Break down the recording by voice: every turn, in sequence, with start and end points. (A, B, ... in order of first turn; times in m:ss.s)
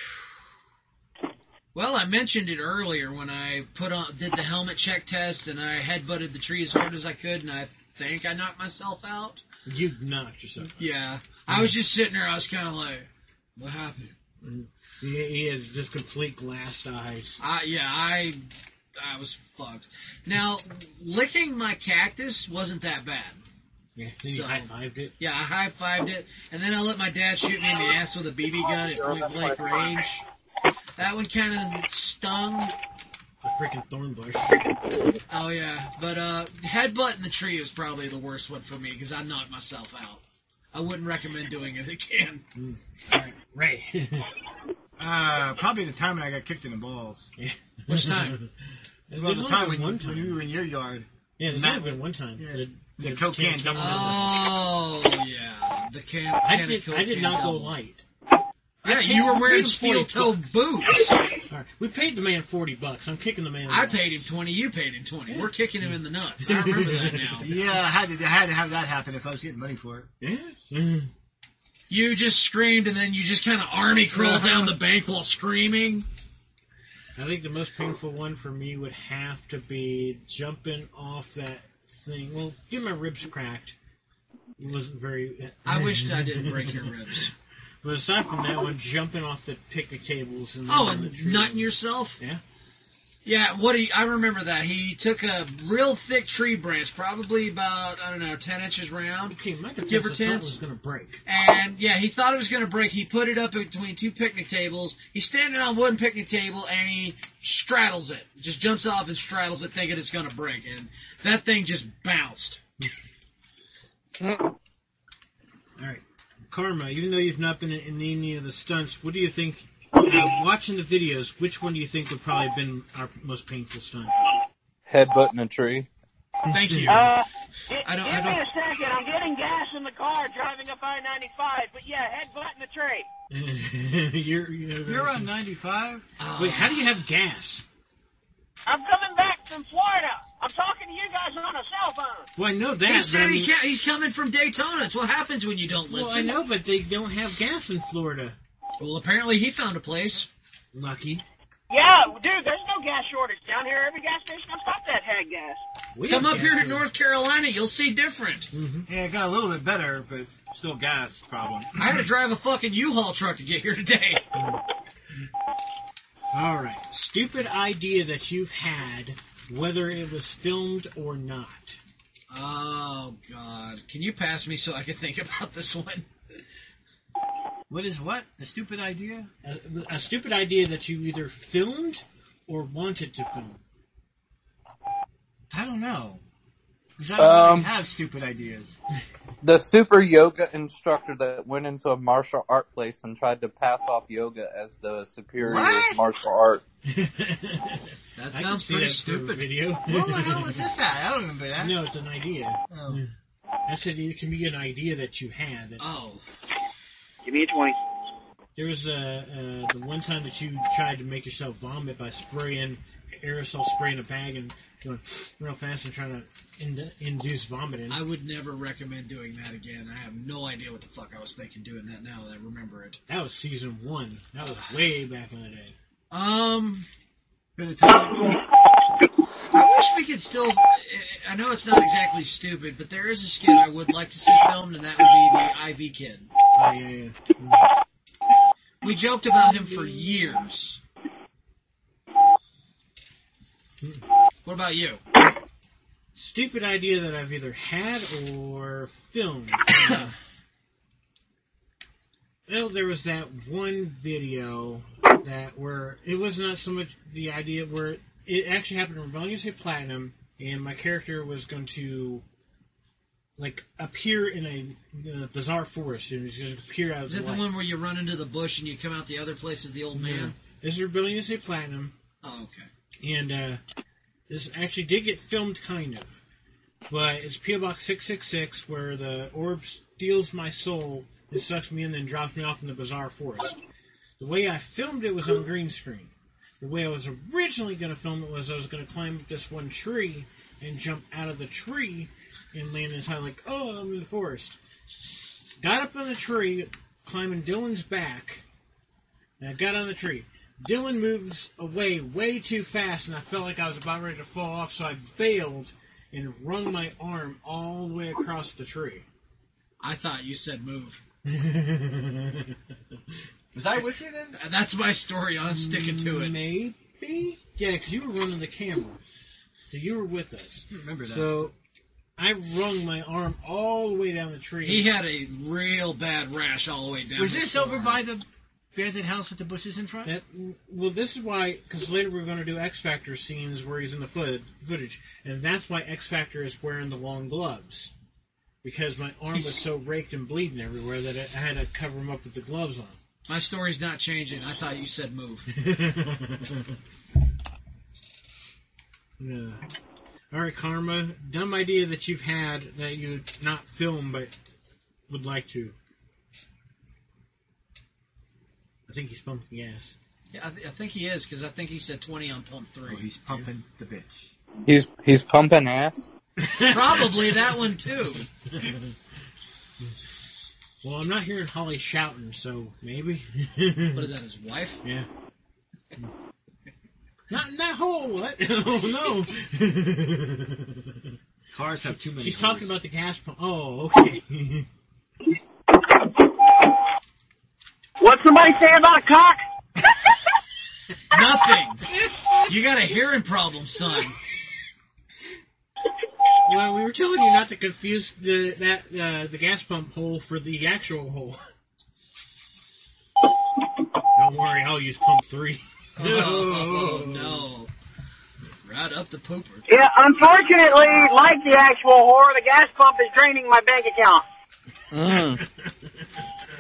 0:01.8-0:09.4 A
0:09.7-0:10.9 B
0:10.8-0:14.2 A
0:11.5-0:11.8 B
0:14.4-0:17.4 B
0:17.4-0:18.4 A
0:19.0-0:23.4 A
0:24.0-0:25.2 B
0:24.2-0:24.7 A
0:25.2-0:30.2 A
0:28.9-0:29.6 C
0:31.0-0:32.8 A
0:33.4-0:34.6 B
0:35.3-0:42.4 A
0:42.6-0:44.3 B
0:45.0-0:47.3 D
0:47.4-0:48.5 B
0:47.9-0:48.4 A
0:49.1-0:50.5 B
0:49.2-0:54.3 D
0:51.4-0:54.4 B
0:53.8-0:57.7 A
0:56.4-0:58.0 B
0:58.8-1:00.4 B
0:58.8-1:01.2 A
1:01.5-1:04.1 B
1:03.7-1:07.5 A
1:05.3-1:07.7 B
1:07.4-1:10.1 D
1:10.2-1:11.1 B
1:11.9-1:16.1 A
1:14.1-1:14.8 B
1:17.2-1:23.8 B
1:24.6-1:27.0 B
1:25.7-1:27.3 A
1:27.8-1:32.4 B
1:30.7-1:32.2 A
1:33.2-1:40.6 A
1:39.3-1:41.2 B
1:41.3-1:52.6 A
1:54.2-1:54.5 C
1:55.8-2:04.2 B
2:04.9-2:05.9 C
2:06.5-2:07.2 A
2:06.5-2:07.0 B
2:06.9-2:13.1 E
2:07.8-2:08.5 A
2:13.3-2:15.3 B
2:14.9-2:16.0 D
2:16.2-2:16.9 A
2:16.4-2:17.6 B
2:18.7-2:22.3 E
2:22.4-2:23.5 B
2:22.9-2:26.3 A
2:25.9-2:28.4 B
2:28.8-2:30.3 A
2:30.7-2:31.2 B
2:31.7-2:35.6 E
2:35.9-2:36.9 B
2:36.0-2:38.5 A
2:38.5-2:38.9 B
2:38.9-2:42.0 D
2:41.8-2:44.2 A
2:44.4-2:44.6 B
2:46.3-2:51.8 B
2:52.3-2:56.1 A
2:57.7-2:59.3 D
2:59.4-3:03.6 B
3:05.5-3:06.2 D
3:07.0-3:08.8 D
3:07.2-3:07.7 C
3:09.4-3:16.6 C
3:15.4-3:16.0 D
3:16.8-3:20.7 B
3:18.2-3:19.5 A
3:19.9-3:21.8 D
3:21.6-3:23.1 B
3:22.7-3:23.0 D
3:23.7-3:25.8 B
3:25.8-3:26.2 A
3:27.2-3:27.8 E
3:28.6-3:38.0 B
3:37.9-3:43.0 A
3:43.1-3:45.8 B
3:46.1-3:46.9 A
3:47.6-3:48.3 D
3:49.5-3:56.3 A
3:56.6-3:57.6 B
3:58.8-4:00.8 A
4:04.4-4:05.0 A
4:06.2-4:10.2 B
4:09.8-4:10.1 A
4:12.5-4:22.2 B
4:23.4-4:27.5 B
4:27.1-4:30.4 A
4:29.9-4:31.9 B
4:32.2-4:32.7 A
4:33.0-4:33.6 B
4:34.3-4:36.2 B
4:36.9-4:43.6 B
4:44.2-4:58.4 B
4:59.4-5:09.1 B
5:09.8-5:11.0 A
5:11.2-5:12.6 B
5:13.5-5:14.4 D
5:14.3-5:16.4 A
5:15.5-5:19.0 B
5:19.6-5:21.5 B
5:20.7-5:21.5 D
5:22.2-5:24.9 B
5:24.6-5:28.0 A
5:27.2-5:30.1 D
5:30.0-5:37.9 B
5:38.6-5:43.0 B
5:43.3-5:45.5 A
5:45.5-5:46.8 B
5:49.2-5:49.6 B
5:50.3-5:54.3 B
5:55.1-5:55.8 B
5:58.9-6:00.0 B
6:00.3-6:03.4 A
6:02.9-6:04.3 D
6:04.7-6:06.1 C
6:06.4-6:07.6 B
6:06.7-6:08.3 A
6:08.5-6:08.9 B
6:10.8-6:14.1 B
6:14.0-6:14.8 A
6:17.3-6:21.2 B
6:21.5-6:22.7 D
6:22.1-6:24.7 B
6:25.7-6:26.7 E
6:28.0-6:29.4 E
6:31.1-6:31.9 A
6:32.5-6:34.2 A
6:36.4-6:41.4 B
6:44.2-6:47.5 B
6:46.0-6:47.7 A
6:48.6-6:49.7 A
6:49.7-6:54.2 E
6:54.9-6:55.4 C
6:55.1-6:56.2 B